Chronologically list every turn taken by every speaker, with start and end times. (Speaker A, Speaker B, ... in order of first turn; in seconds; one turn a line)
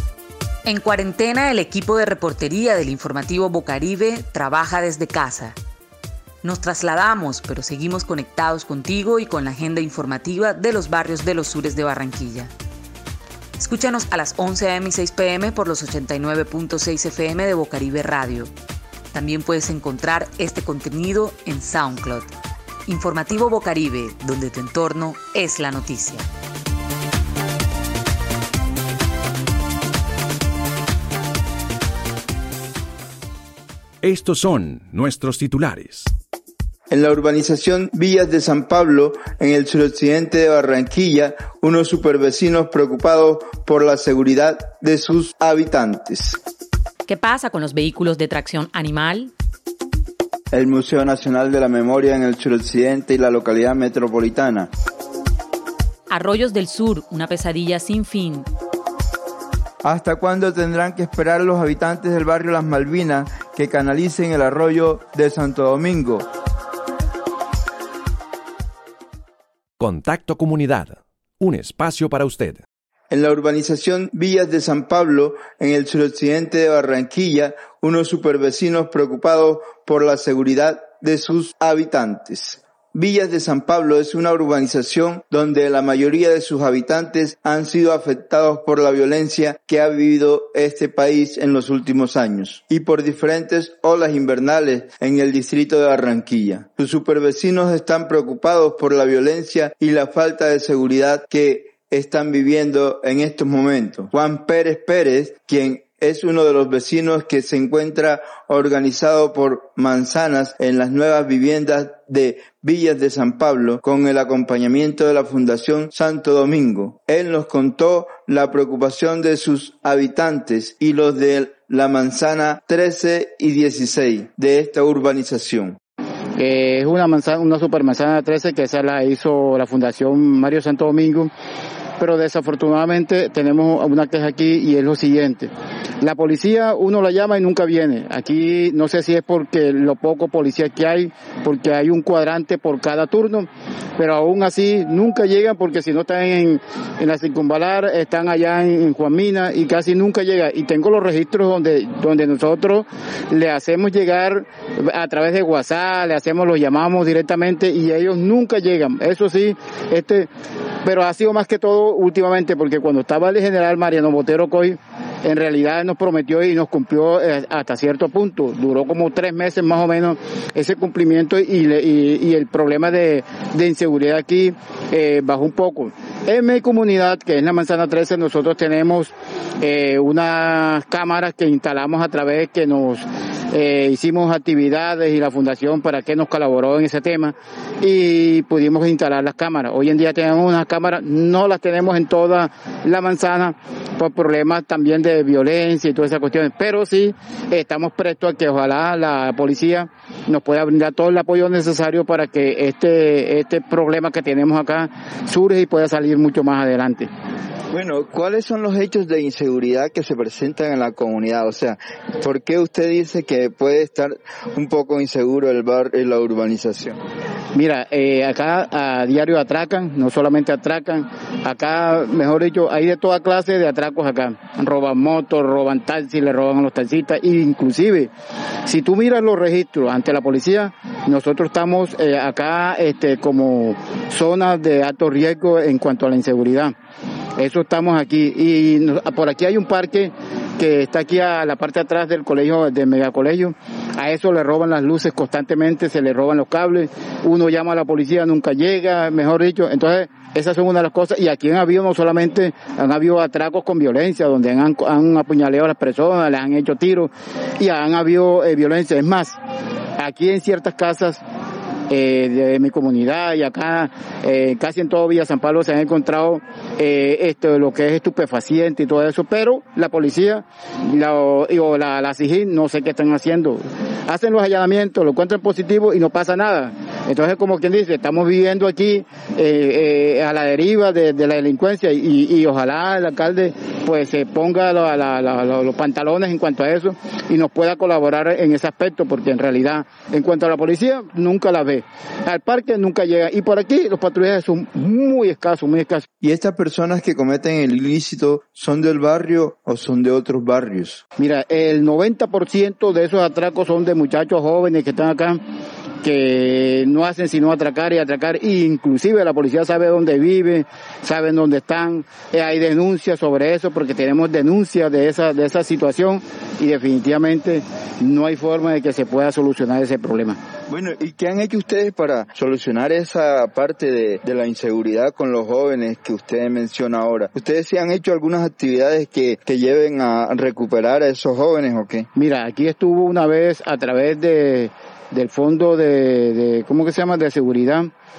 Speaker A: 0.7-5.5
Speaker A: 6.4-12.5
Speaker A: 13.6-18.5
Speaker A: 19.1-22.3
Speaker A: 22.9-26.3
Speaker B: 34.0-36.1
Speaker C: 36.9-46.4
Speaker D: 47.1-49.3
Speaker C: 50.5-54.7
Speaker D: 56.1-58.5
Speaker C: 59.8-66.3
Speaker B: 69.8-72.6
Speaker C: 73.1-125.8
Speaker E: 126.4-131.3
Speaker E: 132.0-135.5
Speaker E: 136.0-160.3
Speaker E: 160.8-207.1
Speaker C: 207.7-217.0
Speaker E: 217.5-228.1
Speaker E: 228.7-236.7
Speaker E: 237.4-259.4
Speaker E: 260.0-261.2
Speaker E: 261.9-296.1
Speaker C: 296.2-301.0
Speaker E: 301.2-305.4
Speaker E: 306.0-320.4
Speaker C: 320.7-332.1
Speaker E: 332.1-337.9